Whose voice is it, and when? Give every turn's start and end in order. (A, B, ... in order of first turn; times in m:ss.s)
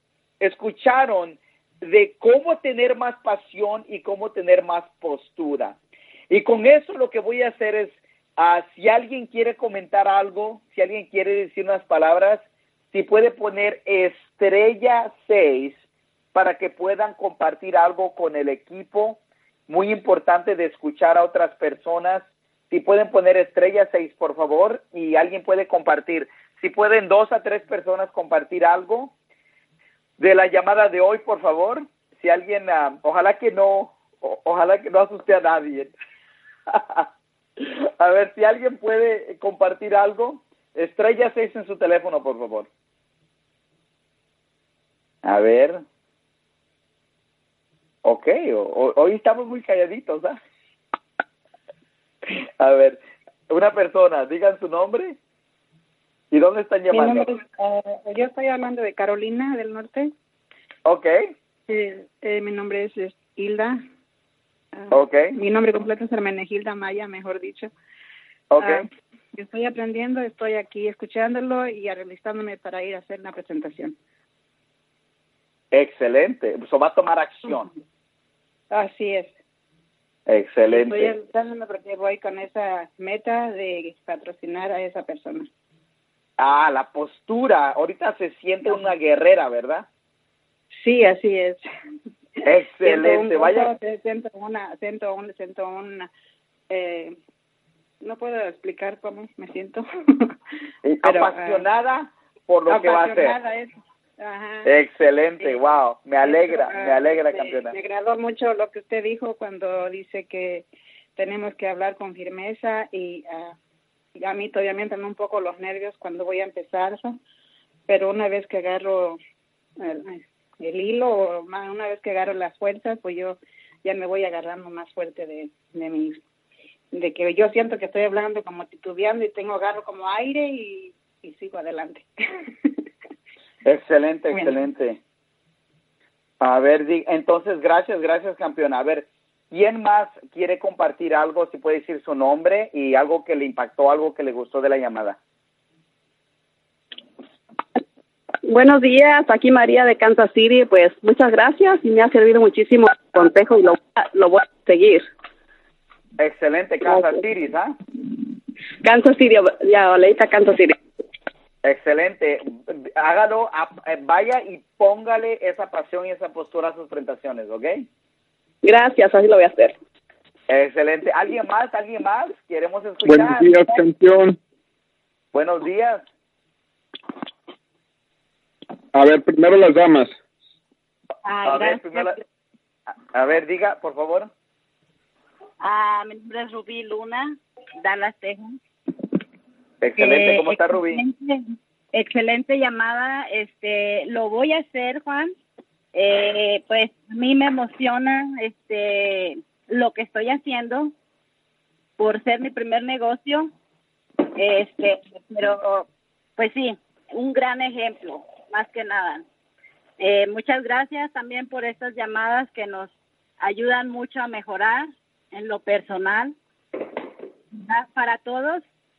0:00.4-0:05.8 A
0:06.3-0:15.8 A
0:16.3-0:29.1 A
0:30.2-0:35.9 A
0:36.7-0:37.1 A
0:37.6-0:42.7 A
0:45.2-0:45.8 A
0:48.0-0:50.4 A
0:52.3-0:55.2 A
0:56.3-0:57.3 A
0:56.9-1:00.1 B
1:00.8-1:01.2 A
1:01.7-1:03.8 B
1:04.8-1:07.7 B
1:04.9-1:05.3 A
1:08.5-1:08.9 A
1:08.6-1:14.0 B
1:15.7-1:17.7 A
1:18.7-1:19.4 B
1:20.3-1:21.1 A
1:20.7-1:25.5 B
1:26.4-1:29.9 A
1:30.8-1:31.6 B
1:32.4-1:33.7 A
1:32.8-1:36.1 B
1:36.7-1:37.2 B
1:38.0-1:40.4 B
1:40.8-1:43.4 A
1:41.0-1:41.6 B
1:42.7-1:44.7 B
1:44.6-1:47.8 A
1:46.2-1:53.6 B
1:54.2-1:57.2 B
1:57.9-1:59.2 B
1:59.8-2:06.2 B
2:06.9-2:12.1 B
2:13.6-2:15.0 A
2:16.4-2:25.2 A
2:28.4-2:35.1 C
2:36.2-2:37.8 A
2:36.9-2:37.2 C
2:38.8-2:40.8 C
2:41.6-2:47.9 A
2:48.6-2:49.8 C
2:50.5-2:53.5 A
2:53.0-2:54.4 D
2:55.3-2:56.0 A
2:58.9-3:00.2 D
3:01.2-3:02.2 E
3:01.4-3:02.2 A
3:02.9-3:04.3 A
3:05.6-3:08.6 E
3:09.8-3:11.0 A
3:10.0-3:15.3 E
3:15.9-3:20.9 E
3:22.0-3:23.5 E
3:24.3-3:29.2 E
3:30.0-3:36.4 E
3:37.5-3:38.6 E